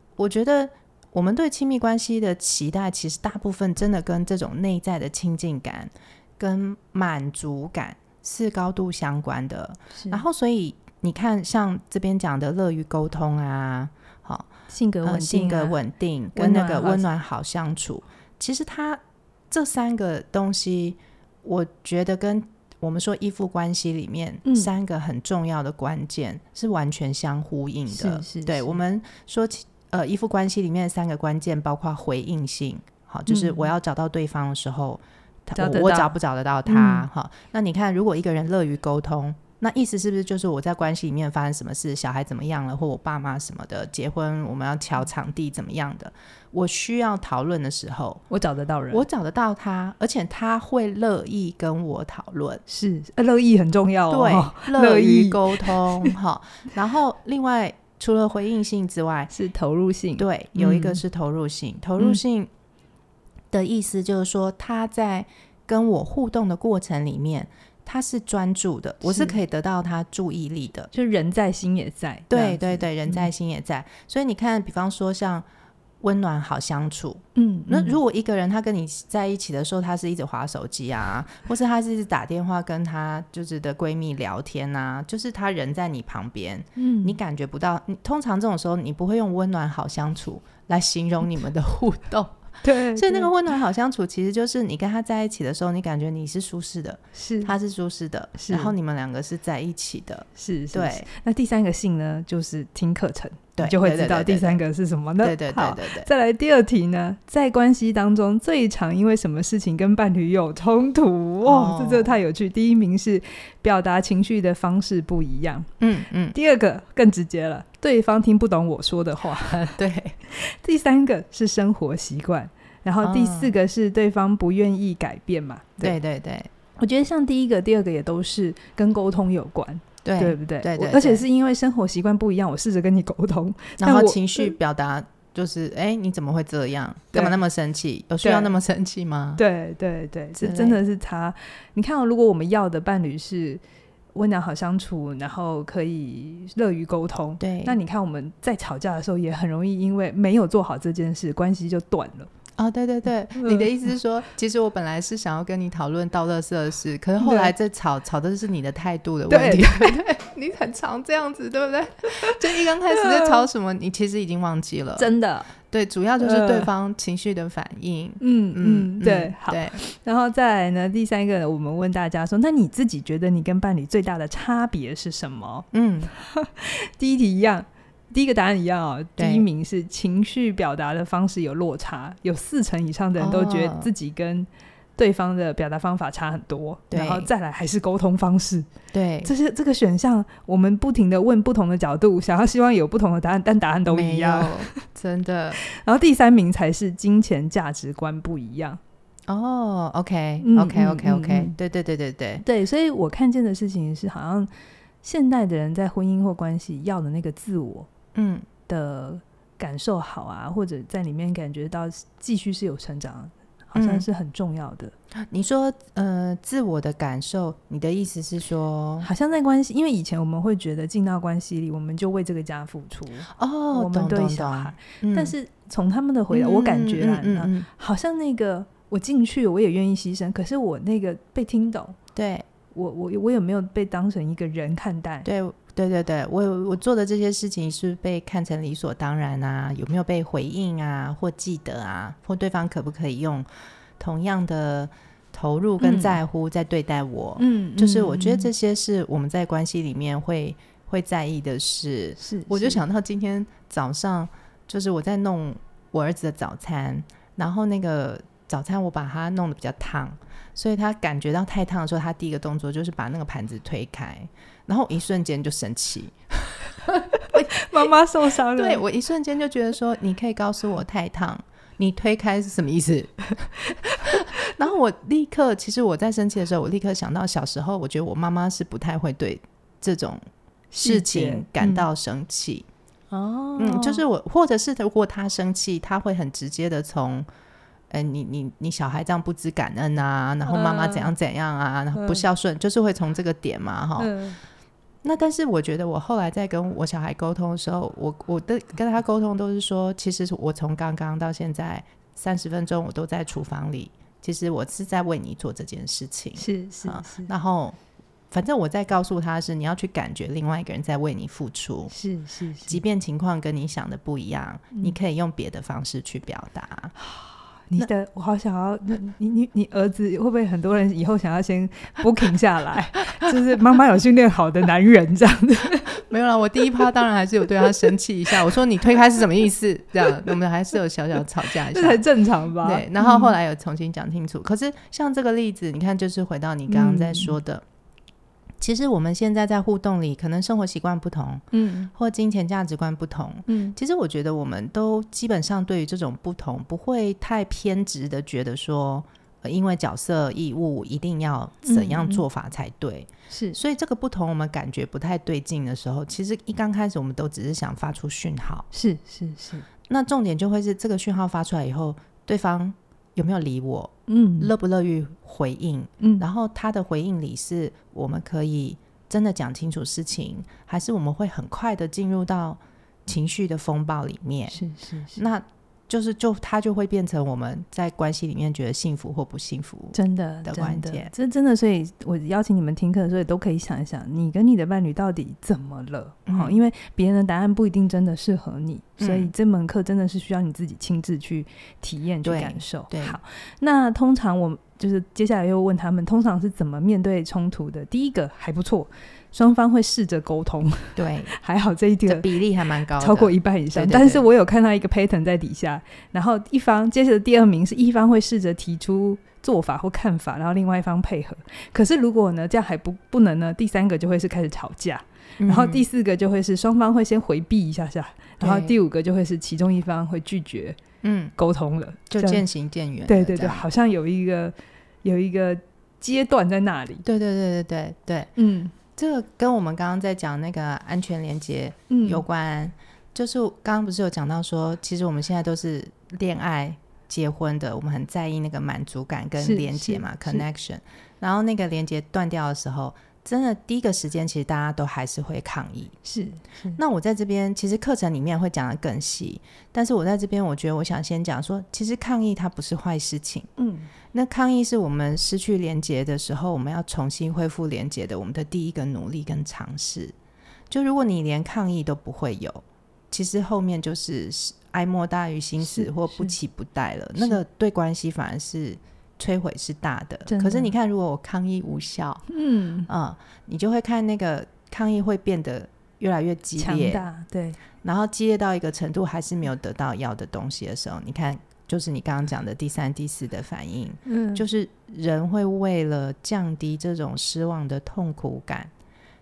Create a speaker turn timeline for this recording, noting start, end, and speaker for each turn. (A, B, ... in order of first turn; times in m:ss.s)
0:00.2-0:14.5 A
0:09.9-0:10.2 B
0:14.7-0:15.8 B
0:15.0-0:48.2 A
0:16.3-0:17.1 B
0:24.4-0:24.7 B
0:27.9-0:28.8 B
0:33.3-0:33.7 B
0:35.5-0:36.1 B
0:36.7-0:37.0 B
0:48.3-0:49.0 B
0:48.9-0:52.6 A
0:52.7-0:56.1 B
0:54.1-0:59.3 A
0:59.3-1:01.0 B
1:00.2-1:02.5 A
1:03.5-1:10.9 A
1:09.0-1:09.4 B
1:10.9-1:13.3 B
1:12.3-1:15.4 A
1:16.0-1:32.4 A
1:17.4-1:18.0 B
1:26.8-1:27.2 B
1:32.6-1:33.3 B
1:32.9-1:41.1 A
1:37.1-1:37.5 B
1:38.4-1:38.7 B
1:40.4-1:55.7 B
1:43.6-1:44.6 A
1:45.2-1:46.1 A
1:51.4-1:52.2 A
1:55.8-1:56.3 A
1:56.3-1:59.7 B
1:59.4-2:00.2 A
2:00.3-2:06.0 B
2:03.0-2:03.5 A
2:05.8-2:06.5 A
2:06.8-2:14.5 B
2:10.0-2:11.2 A
2:13.8-2:19.4 A
2:18.2-2:18.5 B
2:19.4-2:23.6 B
2:20.4-2:20.8 A
2:24.1-2:32.3 B
2:27.4-2:27.8 A
2:32.6-2:45.1 A
2:33.3-2:33.7 B
2:37.2-2:37.5 B
2:39.3-2:40.0 B
2:42.2-2:43.4 B
2:45.0-2:45.5 B
2:45.7-2:49.8 A
2:46.2-2:46.7 B
2:48.2-3:08.7 B
2:55.7-2:56.1 A
2:59.2-2:59.4 A
3:03.2-3:03.9 A
3:06.9-3:07.3 A
3:08.9-3:09.3 A
3:09.2-3:14.8 B
3:13.9-3:15.6 A
3:15.7-3:18.8 B
3:19.3-3:22.4 A
3:20.4-3:21.5 B
3:22.4-3:24.5 B
3:25.0-3:27.9 B
3:28.1-3:28.4 A
3:28.7-3:34.9 B
3:33.7-3:34.0 A
3:35.3-3:39.1 A
3:39.0-3:52.0 B
3:43.3-3:45.3 A
3:46.3-3:47.6 A
3:52.2-3:52.5 A
3:52.7-3:55.3 B
3:55.2-4:03.5 A
4:04.0-4:27.9 A
4:05.8-4:06.2 B
4:07.4-4:08.5 B
4:12.2-4:12.8 B
4:27.2-4:28.8 B
4:28.5-4:40.2 A
4:33.7-4:34.1 B
4:40.7-4:41.8 B
4:40.8-4:42.7 A
4:43.1-4:44.0 B
4:43.6-4:47.3 A
4:47.9-4:54.1 A
4:50.4-4:51.1 B
4:51.9-4:52.2 B
4:54.0-4:54.4 B
4:55.0-5:07.8 A
5:06.4-5:07.3 B
5:08.3-5:11.9 A
5:11.9-5:12.8 B
5:12.7-5:16.9 A
5:14.7-5:15.0 B
5:17.0-5:26.0 B
5:26.0-5:32.0 A
5:31.5-5:33.3 B
5:32.6-5:37.6 A
5:36.7-5:37.3 B
5:38.6-5:58.6 A
5:41.5-5:41.9 B
5:43.5-5:43.8 B
5:51.6-5:52.2 B
5:53.3-5:53.6 B
5:58.7-5:59.7 B
5:59.9-6:14.6 A
6:04.1-6:04.5 B
6:06.0-6:06.2 B
6:14.5-6:15.2 B
6:15.1-6:21.1 A
6:19.9-6:42.3 B
6:26.2-6:26.6 A
6:29.0-6:29.3 A
6:32.2-6:33.2 A
6:41.0-6:41.3 A
6:42.1-6:44.2 A
6:43.0-7:00.8 B
6:55.4-6:55.8 A
6:58.4-6:58.7 A
7:01.0-7:01.3 A
7:01.4-7:02.4 B
7:02.1-7:03.6 A
7:03.1-7:07.0 B
7:07.0-7:08.3 A
7:08.4-7:08.7 B
7:09.0-7:25.9 A
7:11.9-7:12.2 B
7:19.4-7:20.4 B
7:26.0-7:26.8 B
7:26.8-7:33.5 A
7:33.6-7:33.9 B
7:34.1-7:40.1 A
7:40.7-7:52.2 A
7:45.6-7:46.3 B
7:50.3-7:50.7 B
7:52.3-7:52.9 B
7:52.9-7:57.0 A
7:56.6-7:57.6 B
7:57.8-8:08.7 A
8:04.0-8:04.4 B